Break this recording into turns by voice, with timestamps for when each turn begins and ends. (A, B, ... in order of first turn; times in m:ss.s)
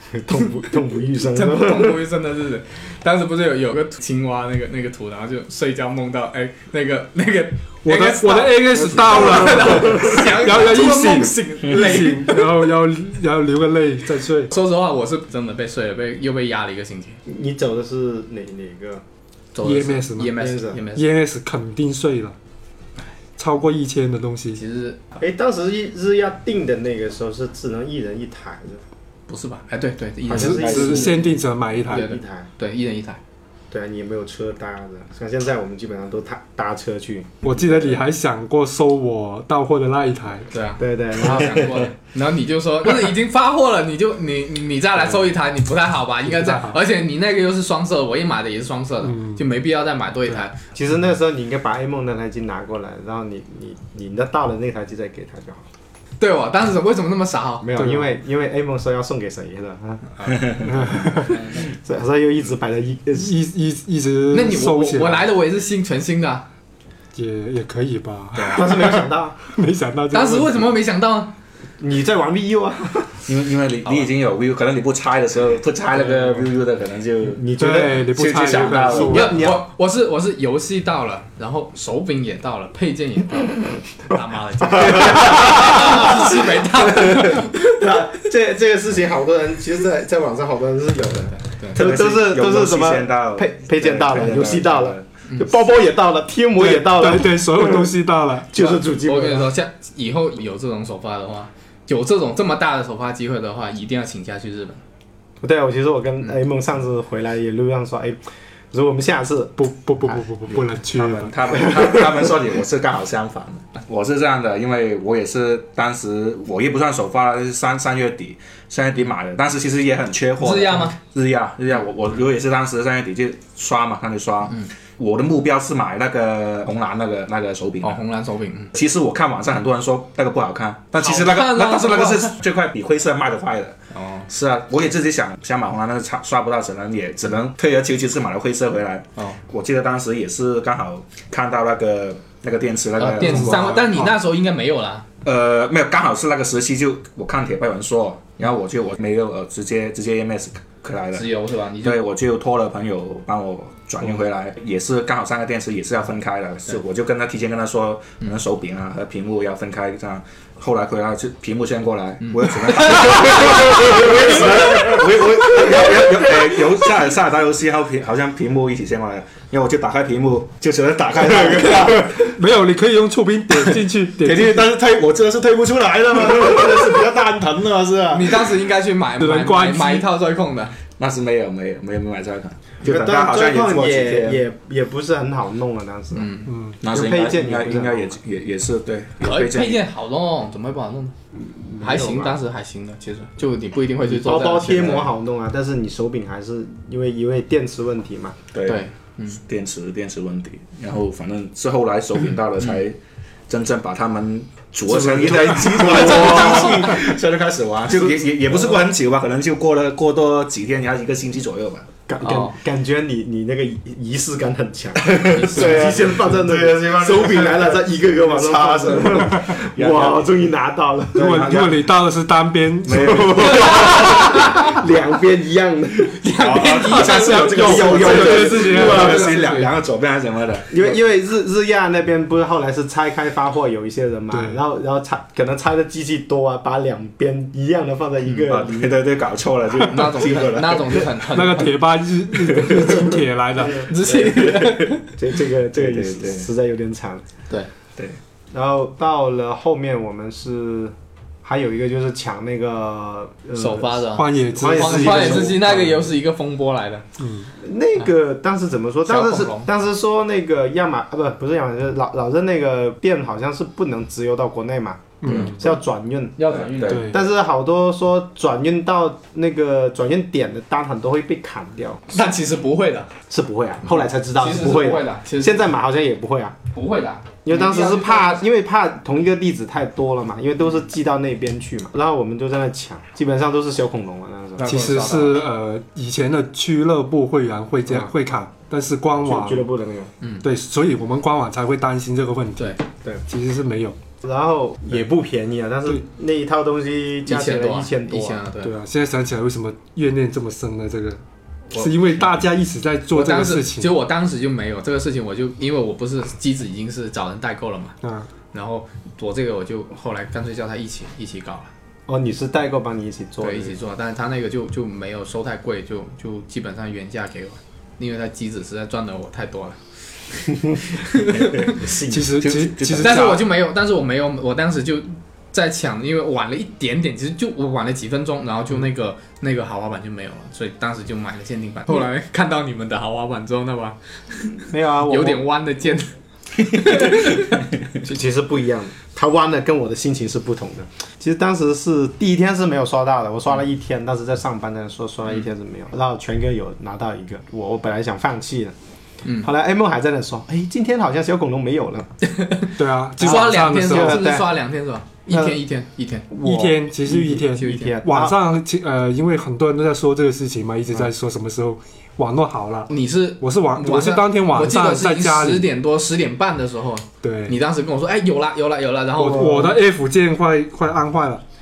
0:00.2-0:02.0 A
0:00.3-0:00.6 B
0:01.2-0:12.5 B
0:07.8-0:14.5 C
0:09.2-0:10.0 A
0:11.6-0:12.0 D
0:14.5-0:17.2 B
0:17.3-0:19.0 A
0:19.5-0:21.1 B
0:19.6-0:20.4 C
0:20.3-0:20.9 A
0:20.9-0:22.4 C
0:23.4-0:24.6 C
0:24.5-0:25.0 B
0:25.2-0:28.8 A
0:29.3-0:31.2 B
0:30.3-0:31.4 A
0:30.3-0:32.2 C
0:30.4-0:31.1 D
0:31.9-0:32.5 A
0:31.9-0:33.2 B
0:33.7-0:38.0 A
0:37.4-0:40.5 C
0:40.5-0:50.6 B
0:40.8-0:41.9 A
0:46.3-0:46.8 C
0:49.0-0:49.4 C
0:50.8-0:55.6 A
0:56.2-0:57.7 B
0:57.6-1:03.4 A
0:57.8-0:58.1 C
1:00.6-1:01.4 C
1:03.2-1:05.3 C
1:04.3-1:06.5 B
1:07.1-1:10.7 C
1:08.4-1:09.5 A
1:10.1-1:11.3 B
1:11.8-1:13.2 A
1:13.3-1:19.3 D
1:17.3-1:19.6 A
1:17.6-1:19.6 C
1:19.0-1:27.9 B
1:24.8-1:37.9 A
1:31.3-1:31.8 B
1:31.7-1:35.1 D
1:36.6-1:38.8 C
1:38.5-1:39.5 A
1:38.7-1:44.8 B
1:45.4-1:48.2 A
1:48.7-1:49.6 A
1:49.6-1:51.3 C
1:50.5-2:08.0 D
1:51.5-1:52.3 A
2:00.4-2:01.0 B
2:07.8-2:08.8 B
2:08.8-2:13.8 D
2:11.0-2:12.4 B
2:13.9-2:14.3 B
2:14.3-2:23.9 D
2:23.0-2:25.0 B
2:23.2-2:23.7 C
2:25.2-2:31.3 D
2:31.2-2:32.0 B
2:31.8-2:52.3 D
2:42.2-2:45.0 B
2:44.0-2:45.0 A
2:51.3-2:52.1 A
2:52.1-2:54.7 C
2:53.7-2:58.5 D
2:58.1-3:00.8 B
2:59.2-3:00.1 C
3:01.0-3:04.4 D
3:02.8-3:06.3 A
3:06.1-3:06.5 B
3:06.5-3:06.8 C
3:06.8-3:09.8 D
3:06.8-3:08.2 A
3:09.2-3:11.2 B
3:11.4-3:12.4 A
3:11.8-3:15.1 B
3:14.0-3:18.4 A
3:18.5-3:18.8 D
3:18.6-3:19.4 B
3:19.4-3:31.9 D
3:24.9-3:27.1 A
3:28.0-3:28.8 A
3:32.1-3:41.7 A
3:32.2-3:32.6 B
3:35.0-3:40.5 D
3:41.2-3:41.8 D
3:41.2-3:43.9 C
3:42.8-3:44.6 D
3:43.0-3:49.5 A
3:43.7-3:44.5 B
3:46.2-3:49.7 B
3:46.2-3:50.9 D
3:47.0-3:49.4 C
3:50.7-3:59.0 A
3:54.3-3:54.6 C
3:58.3-4:01.1 D
3:59.9-4:01.7 B
4:01.3-4:03.9 C
4:03.6-4:07.2 A
4:03.8-4:05.1 B
4:04.1-4:04.8 D
4:05.7-4:06.5 D
4:08.5-4:16.1 A
4:13.6-4:17.0 B
4:14.2-4:16.0 C
4:17.2-4:17.5 C
4:17.6-4:32.0 A
4:19.0-4:19.7 B
4:25.2-4:25.6 C
4:25.2-4:25.6 D
4:25.3-4:25.6 B
4:26.4-4:27.1 B
4:26.5-4:27.1 D
4:26.9-4:27.2 C
4:32.1-4:33.1 B
4:33.3-4:36.6 A
4:34.4-4:35.7 B
4:36.7-4:38.4 B
4:37.4-4:44.7 A
4:44.6-4:49.7 C
4:44.6-4:45.3 B
4:49.2-4:50.1 A
4:50.2-4:50.5 B
4:50.4-4:54.0 C
4:54.2-4:58.4 A
4:57.3-4:58.7 B
4:58.6-5:01.2 C
5:01.7-5:02.0 B
5:01.7-5:03.9 C
5:03.1-5:08.0 B
5:08.0-5:08.3 C
5:08.5-5:11.7 B
5:12.1-5:13.8 A
5:13.4-5:19.8 B
5:20.8-5:21.8 B
5:21.3-5:23.4 D
5:22.1-5:23.4 C
5:23.0-5:37.7 B
5:34.7-5:35.4 A
5:38.0-5:48.8 A
5:49.4-5:52.1 A
5:52.2-5:56.3 B
5:52.8-5:54.3 C
5:53.2-5:54.5 A
5:55.3-5:55.6 A
5:56.3-5:58.4 A
5:56.4-6:05.7 C
5:57.6-5:57.9 B
6:02.9-6:09.8 B
6:07.2-6:07.6 C
6:09.2-6:11.4 C